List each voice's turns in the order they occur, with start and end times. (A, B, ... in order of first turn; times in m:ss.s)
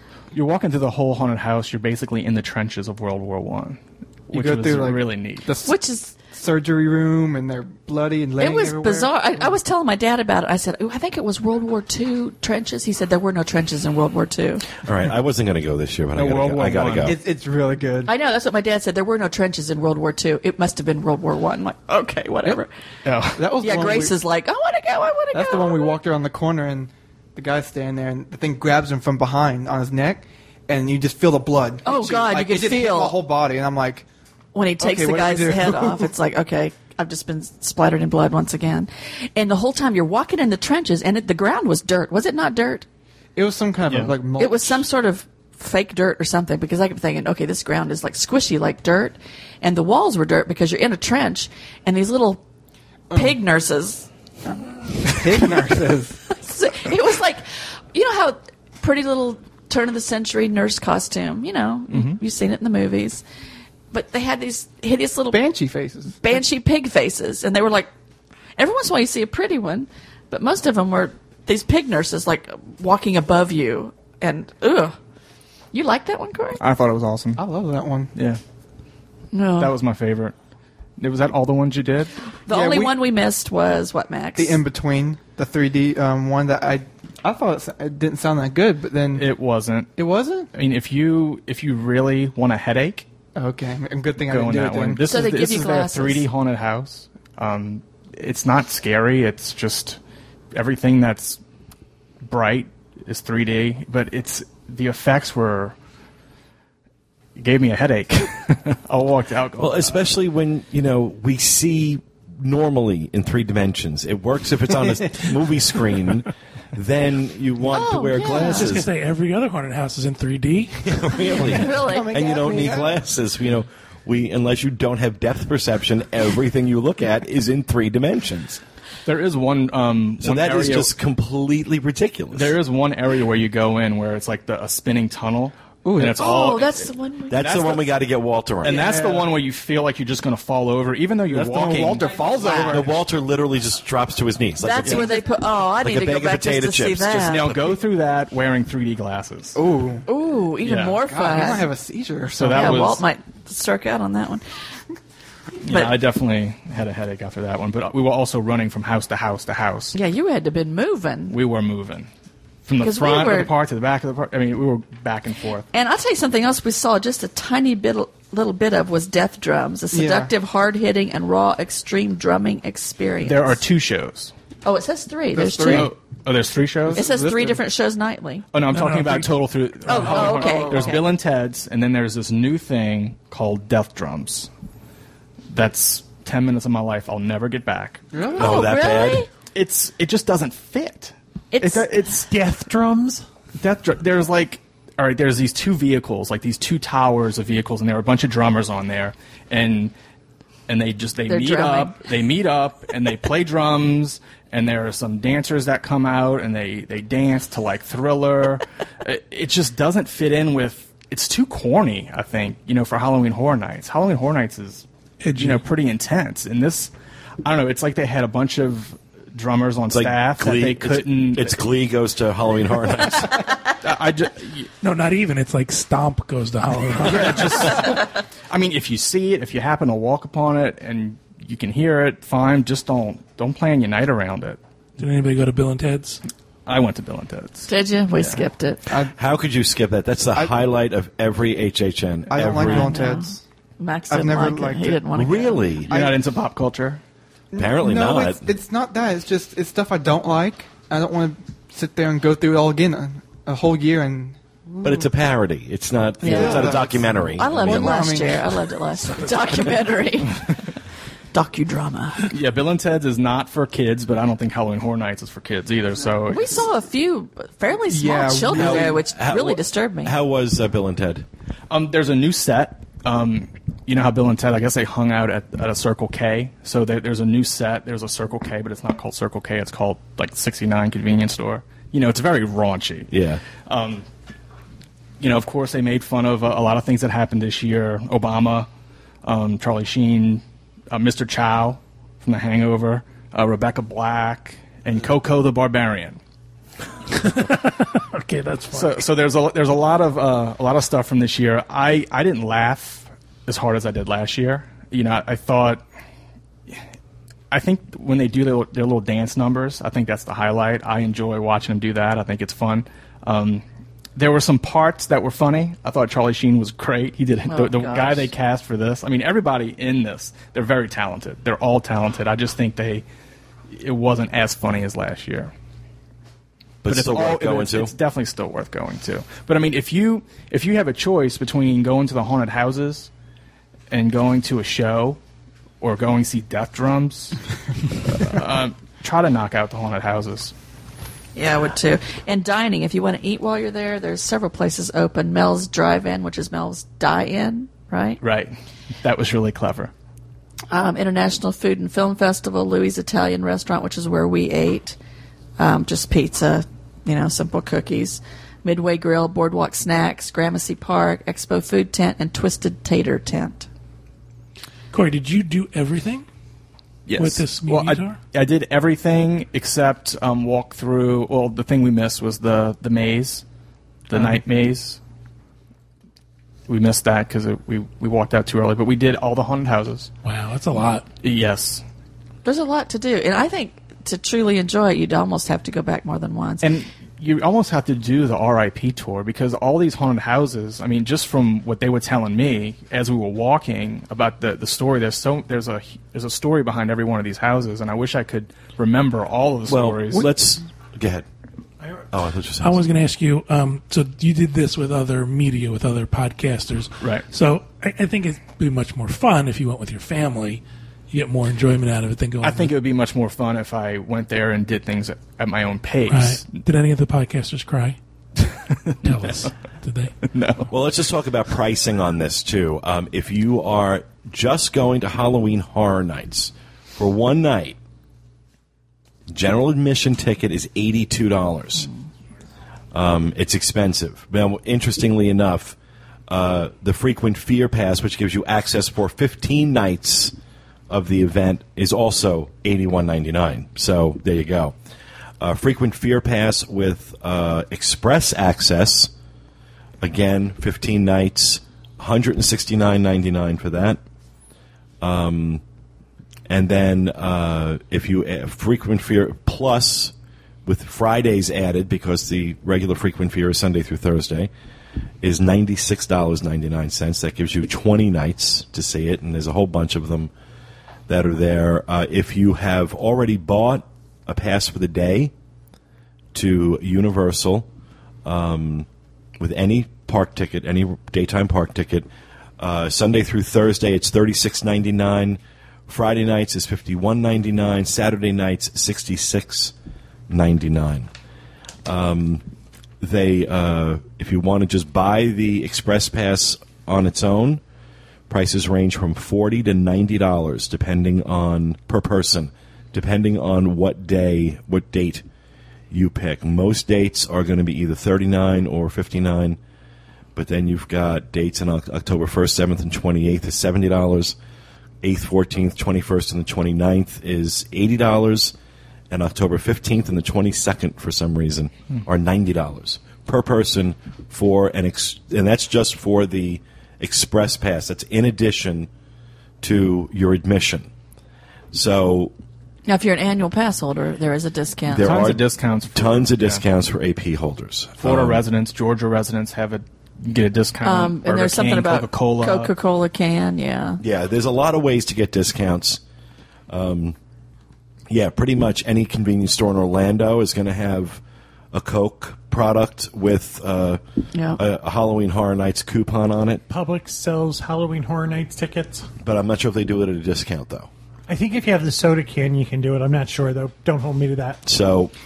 0:00.3-0:05.5 A
0:04.3-0:09.5 B
0:05.6-0:06.2 C
0:08.4-0:14.7 C
0:14.8-0:17.2 D
0:16.1-0:17.2 A
0:17.0-0:18.1 B
0:18.1-0:22.7 C
0:23.0-0:23.4 A
0:23.4-0:24.2 B
0:23.6-0:26.0 C
0:25.3-0:34.1 B
0:31.8-0:33.2 C
0:34.5-0:42.9 C
0:34.8-0:36.1 B
0:43.4-0:44.8 B
0:43.9-0:44.1 A
0:44.4-0:52.4 C
0:53.1-0:53.4 B
0:53.1-0:54.1 C
0:55.0-0:56.2 B
0:56.3-1:03.2 C
1:01.9-1:02.2 A
1:03.9-1:05.4 C
1:05.3-1:06.2 B
1:06.2-1:07.9 C
1:08.6-1:15.0 C
1:15.7-1:16.6 C
1:16.6-1:17.4 A
1:17.4-1:18.1 B
1:18.2-1:18.4 A
1:19.3-1:19.8 C
1:19.6-1:20.4 A
1:21.0-1:22.1 A
1:22.5-1:24.6 C
1:22.5-1:23.0 B
1:24.4-1:29.4 B
1:29.2-1:29.9 A
1:30.0-1:30.5 B
1:30.5-1:33.1 A
1:33.4-1:35.1 B
1:34.2-1:40.0 A
1:35.0-1:36.3 C
1:40.5-1:41.4 A
1:42.2-1:45.8 A
1:47.4-1:50.0 A
1:49.6-1:58.9 D
1:57.7-1:58.7 C
1:58.4-2:01.0 E
2:00.8-2:08.6 D
2:01.1-2:02.1 C
2:01.5-2:03.0 B
2:09.1-2:10.9 A
2:10.2-2:12.6 D
2:12.3-2:17.9 A
2:15.8-2:16.2 B
2:16.2-2:17.4 C
2:17.3-2:18.9 D
2:18.6-2:22.9 A
2:18.6-2:19.3 B
2:21.3-2:22.9 B
2:22.7-2:25.2 D
2:24.6-2:27.5 C
2:24.8-2:25.1 A
2:25.8-2:27.7 D
2:27.2-2:29.6 A
2:29.6-2:30.1 B
2:30.1-2:31.7 C
2:30.6-2:31.0 A
2:31.0-2:33.0 B
2:32.3-2:33.0 A
2:32.5-2:34.4 C
2:35.6-2:40.0 A
2:39.9-2:41.4 C
2:41.3-2:42.1 A
2:42.6-2:45.7 A
2:42.8-2:43.5 C
2:45.7-2:53.6 C
2:49.9-2:50.3 B
2:53.2-2:54.3 A
2:54.6-2:55.9 C
2:55.3-2:55.9 B
2:55.7-2:57.0 A
2:56.9-2:57.6 B
2:56.9-2:58.5 C
2:58.5-3:04.5 A
2:58.7-2:59.3 E
2:59.9-3:01.0 C
3:00.1-3:01.0 B
3:05.5-3:08.0 A
3:08.1-3:08.5 B
3:08.4-3:09.2 D
3:08.4-3:09.3 C
3:09.5-3:12.3 A
3:11.5-3:11.9 C
3:12.3-3:13.2 F
3:13.6-3:19.9 A
3:20.7-3:36.9 A
3:21.3-3:22.0 C
3:35.2-3:35.6 E
3:37.4-3:41.6 A
3:39.9-3:43.4 D
3:43.7-3:44.7 A
3:44.8-3:47.8 E
3:47.0-3:54.6 A
3:55.0-3:56.2 E
3:56.7-3:58.4 A
3:57.7-3:58.8 C
3:58.9-3:59.1 B
3:59.2-4:02.9 D
4:02.3-4:03.4 B
4:02.6-4:05.6 C
4:04.1-4:05.0 B
4:05.1-4:05.9 D
4:05.9-4:06.2 B
4:05.9-4:07.0 A
4:07.5-4:15.1 B
4:07.6-4:08.5 D
4:14.8-4:18.2 D
4:16.2-4:18.7 B
4:16.2-4:16.8 C
4:17.4-4:20.6 C
4:21.3-4:22.3 C
4:22.3-4:26.5 A
4:26.3-4:30.1 C
4:27.9-4:29.0 B
4:28.5-4:31.3 D
4:31.7-4:44.1 A
4:43.1-4:43.4 D
4:45.2-4:48.7 A
4:49.2-4:56.2 A
4:57.1-4:59.0 E
4:58.7-5:05.8 A
5:07.5-5:13.6 A
5:14.2-5:23.0 A
5:17.5-5:18.3 C
5:23.7-5:25.5 A
5:26.8-5:27.9 D
5:26.9-5:33.1 A
5:33.9-5:35.2 A
5:35.8-5:37.4 A
5:38.0-5:40.5 A
5:41.4-5:48.2 C
5:48.2-5:49.9 A
5:50.7-5:55.0 C
5:55.6-6:03.7 C
6:04.9-6:06.3 E
6:07.1-6:13.4 A
6:07.2-6:08.2 E
6:14.1-6:15.0 A
6:16.7-6:20.1 A
6:20.2-6:21.1 E
6:21.2-6:21.8 A
6:22.4-6:26.8 C
6:26.6-6:40.3 A
6:39.7-6:41.3 D
6:42.1-6:42.8 D
6:42.6-6:52.7 E
6:47.0-6:47.2 A
6:52.4-6:56.6 A
6:56.1-6:58.0 E
6:58.4-6:59.5 A
6:59.0-7:00.2 E
7:00.2-7:00.7 A
7:00.7-7:07.8 D
7:09.3-7:11.9 D
7:12.9-7:15.8 D
7:16.3-7:20.3 D
7:20.9-7:24.8 D
7:25.4-7:29.1 D
7:30.0-7:34.0 D
7:35.0-7:35.6 D
7:36.5-7:40.1 D
7:40.7-7:44.5 D
7:45.2-7:50.3 D
7:51.1-7:55.3 D
7:56.3-7:57.7 D
7:58.2-7:58.9 D
7:59.4-8:02.1 D
8:02.6-8:09.7 D
8:10.3-8:11.1 D
8:11.8-8:12.4 D
8:13.0-8:17.6 D
8:18.3-8:25.2 D
8:25.9-8:29.6 D
8:30.4-8:34.4 D
8:35.0-8:38.6 D
8:39.1-8:48.9 D
8:49.6-8:50.9 D
8:51.7-8:52.3 D
8:52.9-8:55.3 C
8:54.9-8:58.4 D
8:55.0-8:56.6 A
8:58.0-9:02.7 A
9:00.8-9:04.0 C
9:04.0-9:06.0 D
9:06.7-9:07.2 D
9:08.1-9:14.0 D
9:14.3-9:14.6 C
9:14.6-9:16.6 D
9:16.7-9:19.1 F
9:19.2-9:20.9 D
9:21.3-9:24.6 F
9:24.7-9:25.1 D